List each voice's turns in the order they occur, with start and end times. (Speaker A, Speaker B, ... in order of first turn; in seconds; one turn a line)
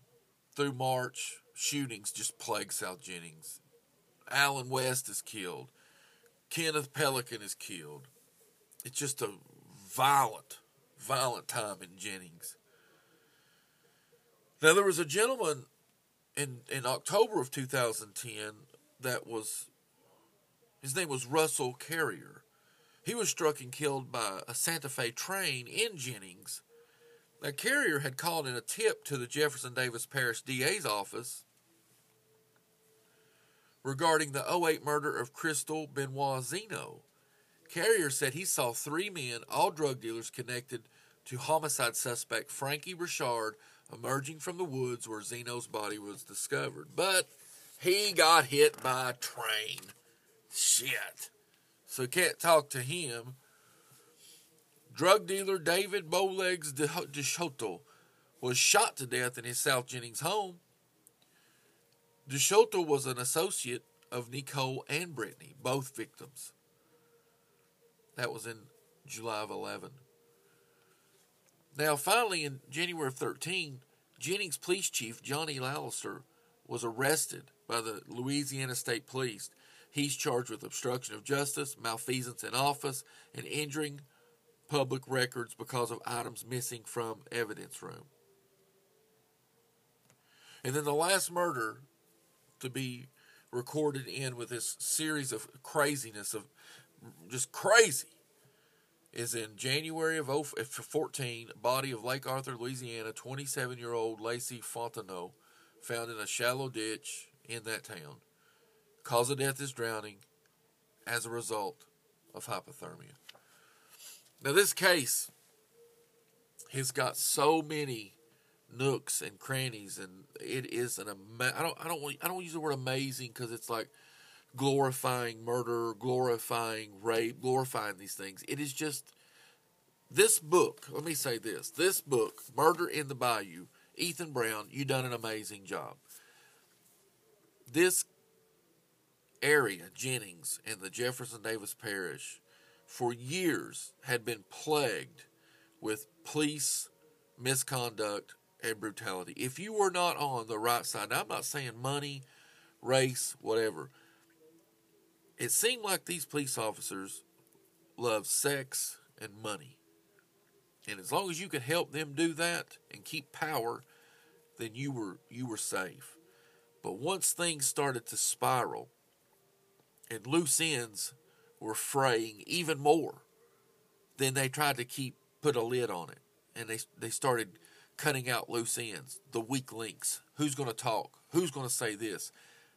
Speaker A: 0.6-3.6
Speaker A: 4.3-5.7
Speaker A: 6.5-8.1
Speaker A: 8.8-12.6
Speaker A: 14.6-15.7
Speaker A: 16.4-19.7
Speaker A: 20.8-22.4
Speaker A: 23.1-26.6
Speaker A: 27.4-31.4
Speaker A: 33.8-37.0
Speaker A: 37.7-50.0
Speaker A: 50.5-51.3
Speaker A: 51.9-53.4
Speaker A: 54.9-57.9
Speaker A: 58.4-60.6
Speaker A: 62.3-66.5
Speaker A: 68.2-70.0
Speaker A: 71.7-84.1
Speaker A: 84.7-88.1
Speaker A: 90.6-91.9
Speaker A: 92.6-96.5
Speaker A: 97.0-98.2
Speaker A: 99.1-108.2
Speaker A: 109.0-110.2
Speaker A: 111.1-113.2
Speaker A: 114.4-115.3
Speaker A: 116.7-118.2
Speaker A: 118.7-123.9
Speaker A: 124.5-129.2
Speaker A: 130.1-136.0
Speaker A: 137.7-138.1
Speaker A: 139.4-145.3
Speaker A: 145.8-152.2
Speaker A: 152.8-153.9
Speaker A: 155.4-157.2
Speaker A: 158.0-159.8
Speaker A: 160.9-163.9
Speaker A: 164.6-166.2
Speaker A: 166.8-168.9
Speaker A: 170.1-173.3
Speaker A: 174.2-182.3